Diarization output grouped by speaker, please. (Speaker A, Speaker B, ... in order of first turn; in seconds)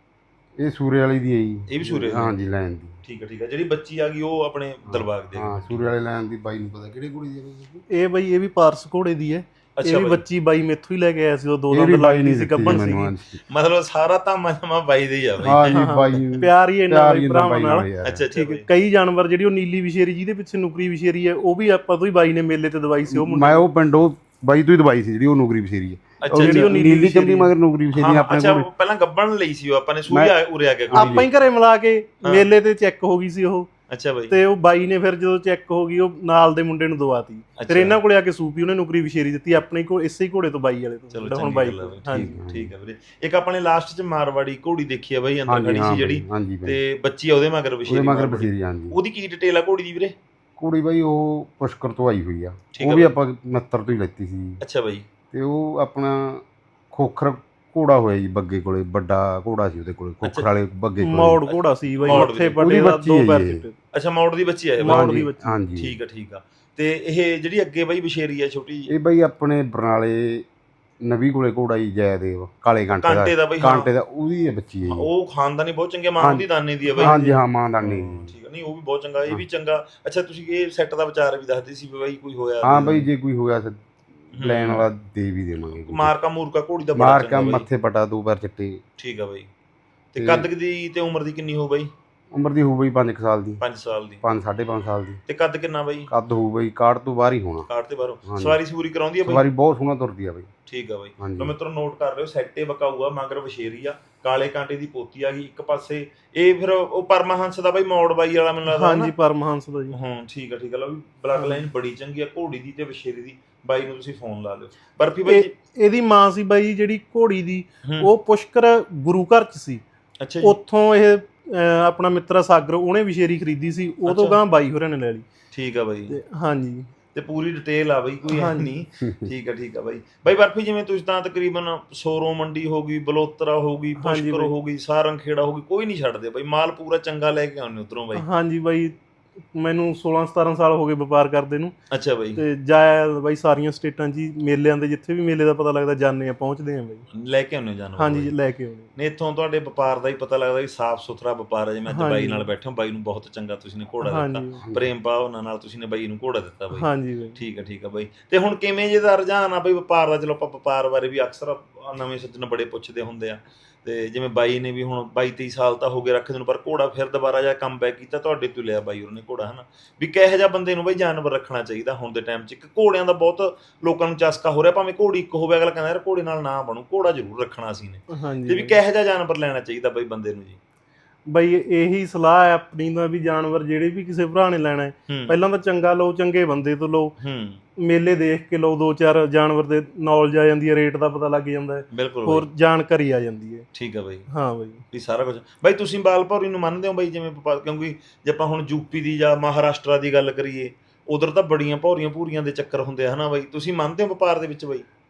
Speaker A: 0.6-3.0, 4.9-7.8, 11.7-13.4, 15.4-18.3, 23.1-28.7, 30.1-30.3, 30.9-31.3, 42.1-42.7, 45.5-46.8, 47.9-49.0, 50.6-54.6, 55.3-61.4, 62.0-63.6, 64.9-66.0, 68.9-70.5, 71.0-75.1, 76.2-76.5, 77.0-78.3, 82.6-86.1, 87.0-88.8, 90.2-90.5, 92.3-93.6, 94.2-95.2, 96.1-97.7, 98.2-98.6, 99.2-100.5, 101.2-101.5, 154.6-154.9
Speaker B: 1.7-2.4, 3.0-5.9, 9.8-10.2, 13.5-16.4, 18.0-18.6, 26.2-26.7, 27.9-31.3, 33.9-34.4, 37.6-38.0, 41.1-50.1, 52.7-53.1, 54.6-55.1, 60.2-60.5, 61.5-62.6, 63.9-68.9, 73.0-73.9, 74.9-77.2, 77.8-83.1, 84.3-84.9, 85.7-87.7, 89.0-89.5, 90.1-91.9, 93.6-94.2, 95.3-96.1, 97.7-99.5, 100.7-109.1, 109.9-115.5, 117.8-118.1, 120.2-120.6, 124.1-124.4, 125.5-126.2, 127.1-138.2, 141.9-142.4, 147.1-148.3, 149.0-180.6, 185.1-185.4, 187.2-187.6, 191.9-192.5, 193.7-194.3, 194.9-204.9
Speaker C: 7.9-13.1, 15.7-23.6, 26.3-27.5, 30.9-33.7, 34.3-42.4, 61.0-63.8, 64.8-65.6, 76.9-77.4, 108.7-110.0, 111.3-111.6, 115.3-119.8, 120.4-125.2, 126.1-126.9, 128.3-128.7, 134.0-134.5, 138.2-139.0, 139.5-141.7, 142.4-147.1, 148.0-148.9, 151.9-152.5, 154.0-154.6, 156.7-157.4, 178.1-178.8, 181.3-187.1, 187.8-193.7, 194.3-194.8